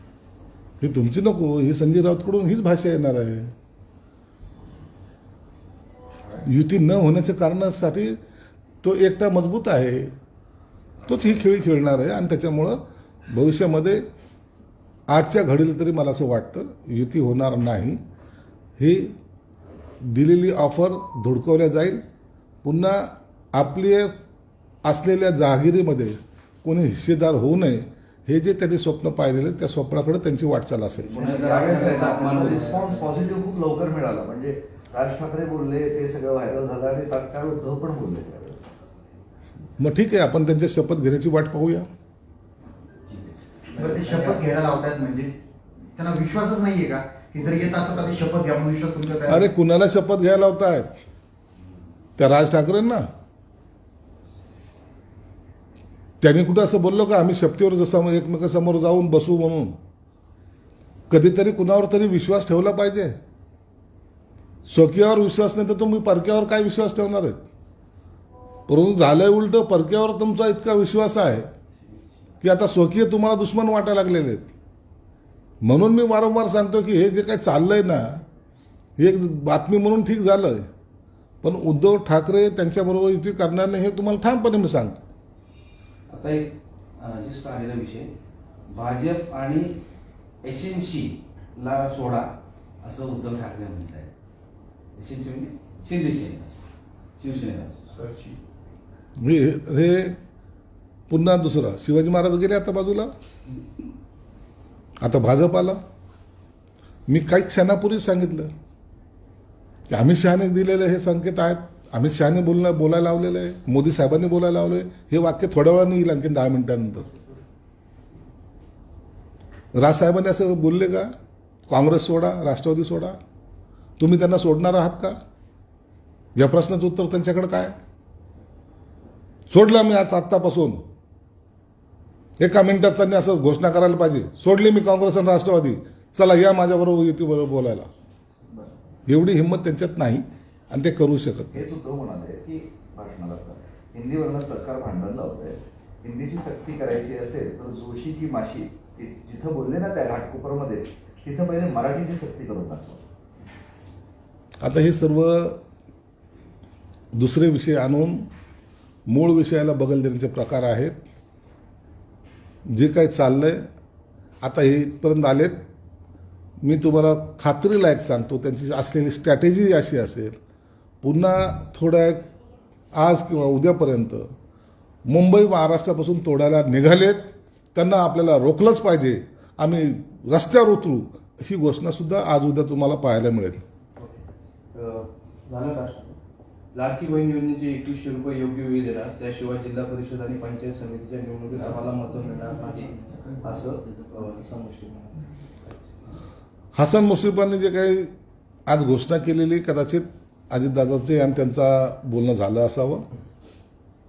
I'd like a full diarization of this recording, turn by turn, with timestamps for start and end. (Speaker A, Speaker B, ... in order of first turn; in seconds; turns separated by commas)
Speaker A: 0.8-3.5, Speaker A: 6.4-8.2, Speaker A: 8.8-10.1, Speaker A: 11.1-14.0, Speaker A: 15.1-18.0, Speaker A: 18.8-19.1, Speaker A: 20.0-22.0, Speaker A: 22.6-24.2, Speaker A: 24.9-31.2, Speaker B: 31.0-33.2, Speaker C: 31.1-38.7, Speaker A: 39.8-41.9, Speaker B: 43.1-44.4, Speaker D: 43.8-45.3, Speaker C: 43.8-44.6, Speaker D: 46.0-49.5, Speaker C: 47.4-48.4, Speaker A: 49.3-50.9, Speaker A: 52.2-53.1, Speaker A: 56.2-59.8, Speaker A: 61.1-63.1, Speaker A: 64.7-67.5, Speaker A: 68.7-71.5, Speaker A: 72.4-74.5, Speaker A: 75.6-78.2, Speaker A: 79.0-80.7, Speaker A: 81.4-85.0, Speaker B: 86.1-88.1, Speaker B: 88.7-89.8, Speaker B: 90.4-92.3, Speaker B: 92.8-94.1, Speaker B: 95.0-96.6, Speaker B: 97.2-98.1, Speaker A: 99.2-100.2, Speaker A: 101.1-103.1, Speaker A: 105.0-105.8, Speaker A: 107.1-108.5, Speaker A: 109.9-117.1, Speaker A: 119.8-121.1, Speaker A: 121.7-123.2, Speaker A: 124.0-125.2, Speaker A: 126.4-127.7, Speaker A: 129.5-130.8, Speaker A: 132.4-137.9, Speaker A: 139.1-141.6, Speaker C: 141.5-153.0, Speaker A: 154.6-155.6, Speaker A: 157.2-158.2, Speaker A: 159.1-161.0, Speaker A: 162.7-163.6, Speaker A: 164.4-165.6, Speaker A: 166.6-170.4, Speaker A: 171.0-172.3, Speaker A: 172.9-174.3, Speaker A: 175.1-183.6, Speaker E: 184.7-186.2, Speaker E: 186.8-195.2, Speaker A: 196.8-198.1, Speaker A: 198.7-203.1